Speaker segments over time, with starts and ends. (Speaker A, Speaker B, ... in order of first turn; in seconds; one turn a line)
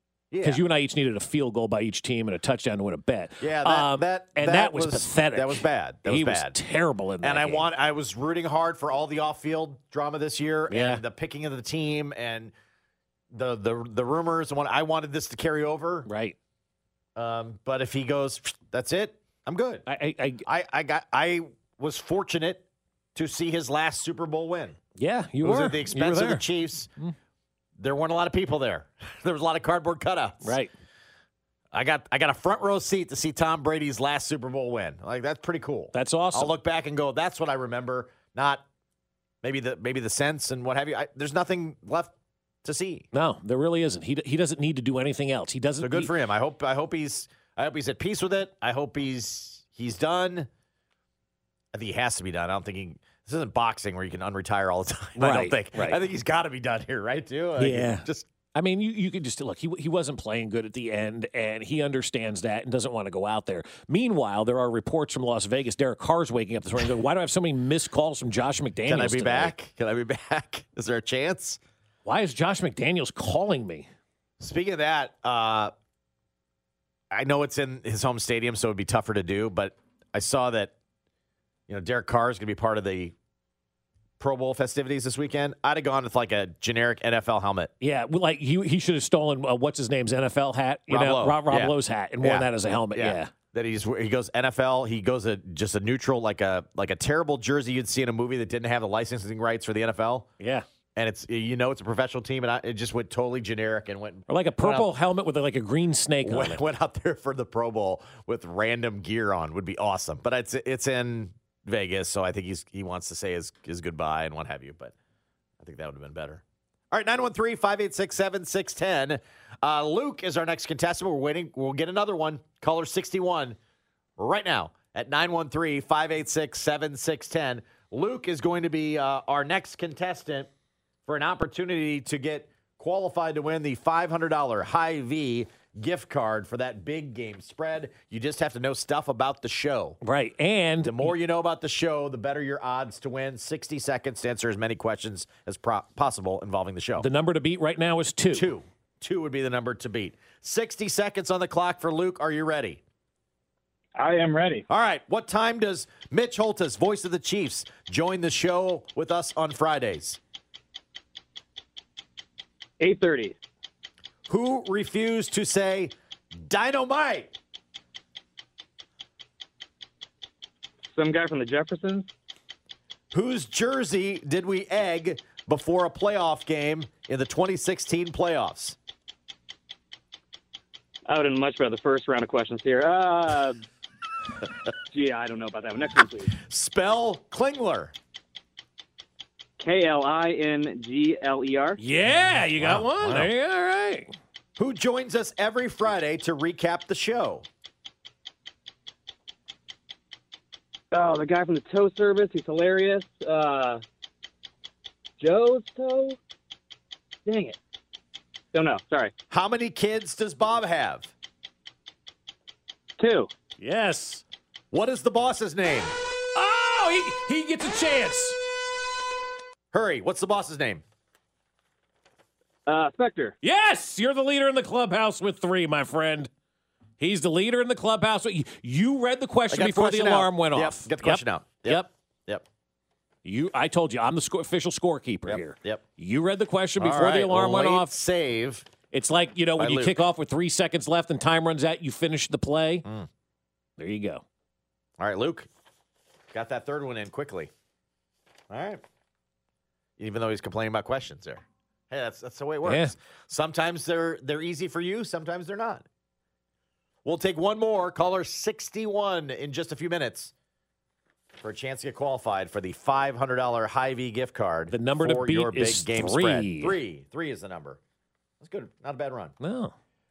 Speaker A: 0.3-0.6
Speaker B: 0.4-7.7
Speaker A: 3.4-6.6
Speaker A: 7.2-12.5
Speaker B: 10.7-11.0
Speaker A: 13.3-16.1
Speaker B: 16.1-16.4
Speaker A: 17.2-19.9
Speaker B: 19.9-20.5
Speaker A: 20.5-22.6
Speaker A: 23.1-24.8
Speaker B: 25.0-26.4
Speaker A: 25.4-26.9
Speaker A: 27.8-30.6
Speaker B: 30.4-30.7
Speaker A: 31.7-38.6
Speaker B: 35.9-36.5
Speaker A: 39.4-42.1
Speaker A: 42.6-43.1
Speaker B: 43.1-46.1
Speaker A: 45.8-50.5
Speaker A: 51.7-58.3
Speaker B: 55.2-56.0
Speaker B: 57.6-69.5
Speaker A: 68.9-71.6
Speaker B: 72.0-73.9
Speaker A: 74.4-75.7
Speaker A: 77.1-80.7
Speaker A: 81.7-83.2
Speaker A: 84.2-87.7
Speaker B: 87.8-93.3
Speaker A: 90.9-100.3
Speaker B: 100.4-100.7
Speaker A: 101.0-104.9
Speaker B: 104.3-106.6
Speaker A: 106.2-114.9
Speaker A: 115.6-123.6
Speaker A: 124.2-130.5
Speaker A: 131.1-140.0
Speaker B: 140.0-141.1
Speaker A: 140.8-147.1
Speaker B: 147.0-148.5
Speaker A: 148.3-152.8
Speaker C: 154.0-154.7
Speaker A: 154.7-160.2
Speaker C: 162.8-163.4
Speaker A: 164.3-167.3
Speaker C: 170.9-172.1
Speaker A: 173.1-178.8
Speaker C: 181.1-183.6
Speaker C: 184.9-186.3
Speaker A: 186.4-187.9
Speaker C: 189.6-191.8
Speaker B: 191.8-194.1
Speaker A: 192.6-193.3
Speaker A: 194.6-197.5
Speaker C: 200.9-203.8
Speaker C: 205.2-206.2
Speaker C: 207.2-207.6
Speaker C: 208.5-209.1
Speaker A: 209.3-211.1
Speaker C: 213.0-213.3
Speaker B: 213.6-214.2
Speaker A: 214.7-215.9
Speaker B: 216.3-218.4
Speaker A: 219.7-220.8
Speaker C: 222.7-223.3
Speaker B: 223.4-226.3
Speaker B: 227.0-231.9
Speaker A: 229.5-232.4
Speaker B: 233.2-237.9
Speaker A: 235.3-235.8
Speaker A: 236.8-238.7
Speaker B: 238.9-242.9
Speaker A: 239.6-240.0
Speaker B: 243.8-244.2
Speaker A: 245.0-245.5
Speaker A: 246.3-247.5
Speaker A: 248.5-248.8
Speaker A: 250.0-255.8
Speaker B: 252.6-252.9
Speaker A: 257.1-260.3
Speaker A: 261.4-267.8
Speaker B: 264.7-266.8
Speaker A: 268.4-269.4
Speaker B: 269.4-269.7